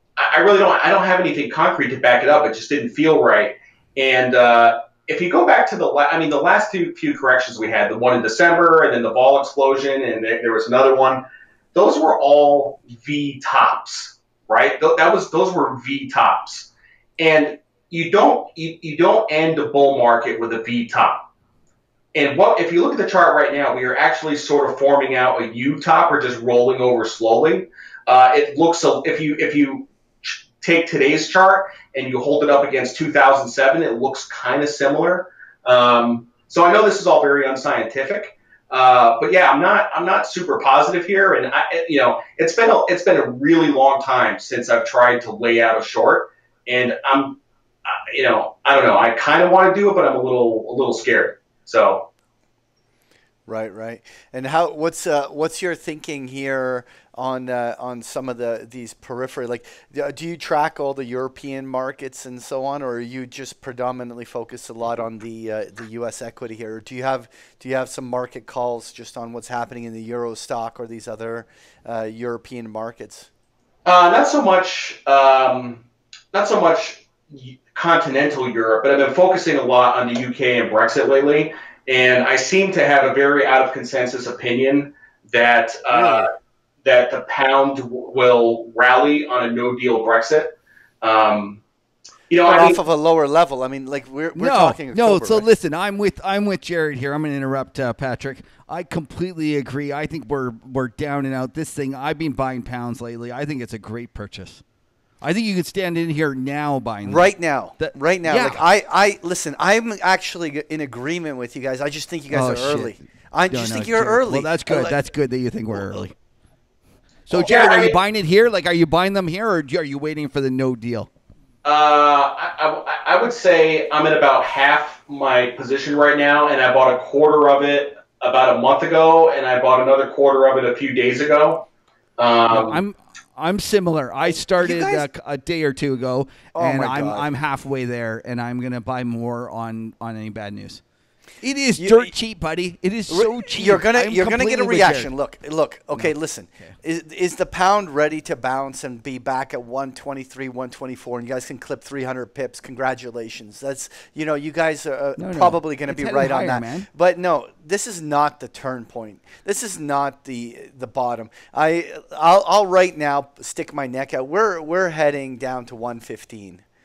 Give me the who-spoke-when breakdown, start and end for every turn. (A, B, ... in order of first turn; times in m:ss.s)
0:00.2-0:11.2 A
0:11.7-0:21.2 A
0:22.1-0:52.1 A
0:53.5-1:13.3 B
1:13.8-1:26.3 A
1:25.9-1:26.3 B
1:26.8-1:31.6 A
1:32.3-1:32.8 A
1:32.4-1:35.4 B
1:34.4-1:44.6 C
1:45.2-1:48.6 C
1:47.0-1:55.0 B
1:52.3-1:56.1 C
1:57.3-2:01.1 C
1:57.3-1:58.0 A
2:01.6-2:11.7 A
2:12.2-2:12.8 A
2:12.5-2:20.8 C
2:14.4-2:15.1 B
2:16.5-2:17.3 B
2:21.4-2:25.1 C
2:21.8-2:22.1 B
2:23.1-2:46.6 B
2:25.9-2:26.7 C
2:35.2-2:36.9 C